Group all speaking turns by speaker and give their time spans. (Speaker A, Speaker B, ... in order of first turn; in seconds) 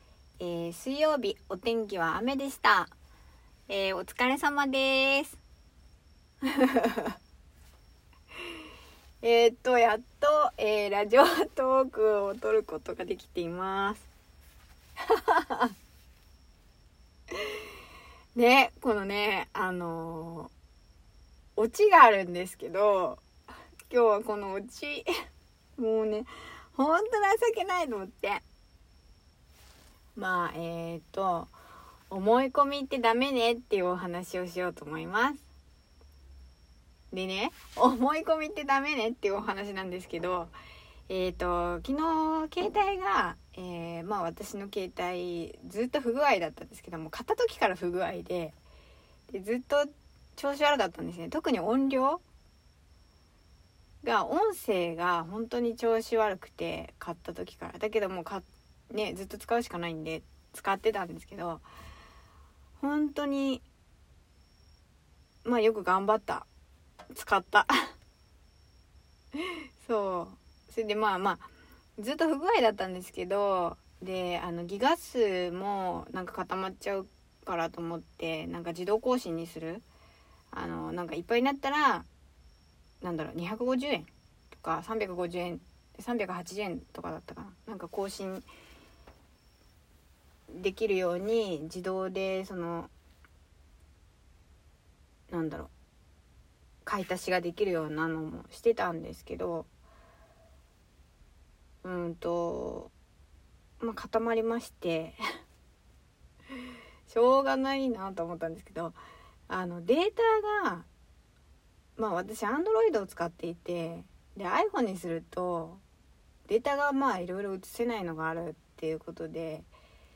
Speaker A: 0.4-2.9, 3.7-5.4, 6.4-7.2, 9.2-14.1, 15.1-15.7, 17.3-17.6, 18.3-20.5, 21.6-23.2, 23.9-25.1, 25.8-28.4, 30.1-31.5, 32.1-35.4, 37.1-40.5, 41.1-48.5, 49.3-52.2, 54.0-61.6, 62.8-63.6, 65.4-66.5, 67.1-67.7, 69.4-79.8, 80.5-82.1, 83.0-88.5, 90.5-92.9, 95.3-95.7, 96.8-99.7, 101.8-102.9, 103.8-105.2, 107.1-109.0, 109.5-110.9, 112.0-115.8, 116.5-119.7